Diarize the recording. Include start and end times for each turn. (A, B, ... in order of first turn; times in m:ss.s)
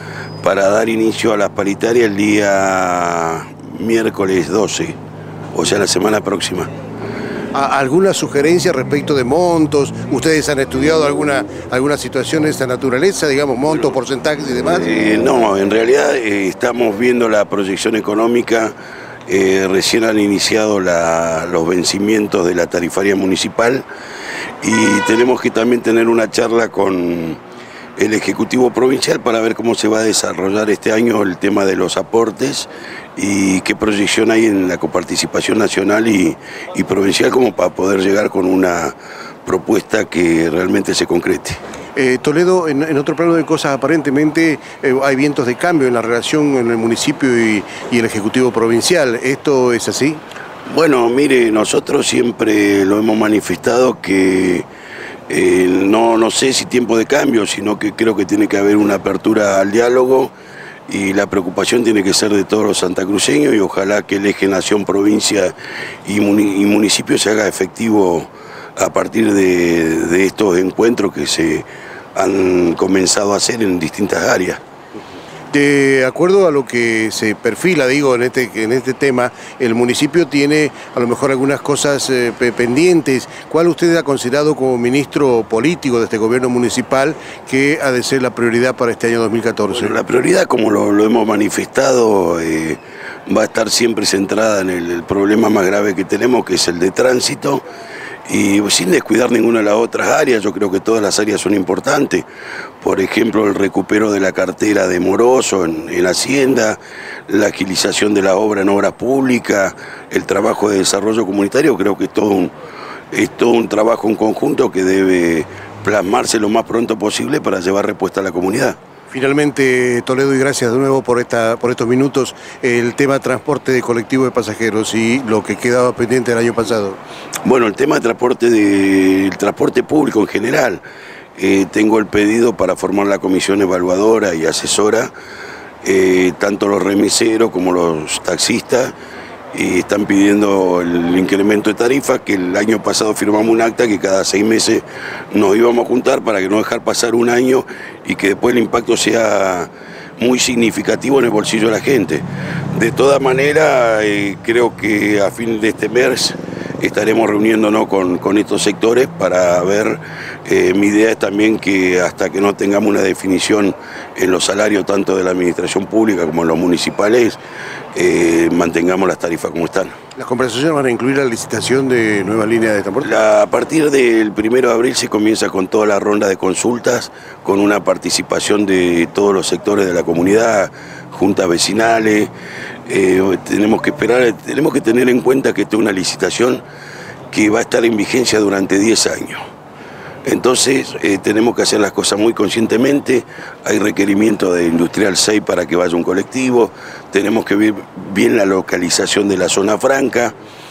0:00.4-0:05.0 A
0:05.5-0:06.7 A
0:07.5-0:14.9 B
0:14.7-0:18.7 A
0:19.3-0:23.8 A
0:24.6-0:27.4 A
0:28.0-0:41.6 A
0:42.0-0:50.2 B
0:50.7-0:54.7 A
0:55.3-1:00.3 A
1:00.9-1:05.5 A
1:06.0-1:14.6 A
1:15.5-1:30.0 B
1:29.8-1:37.6 A
1:38.3-1:42.3 A
1:42.8-1:52.5 A
1:53.1-1:58.8 A
1:59.1-2:07.0 B
2:07.4-2:10.8 A
2:11.4-2:15.1 A
2:15.8-2:18.9 A
2:19.5-2:47.4 A
2:48.0-2:49.9 A
2:50.2-2:53.1 B
2:53.0-3:02.3 A
3:02.9-3:06.6 A
3:07.3-3:09.4 A
3:10.2-3:20.4 A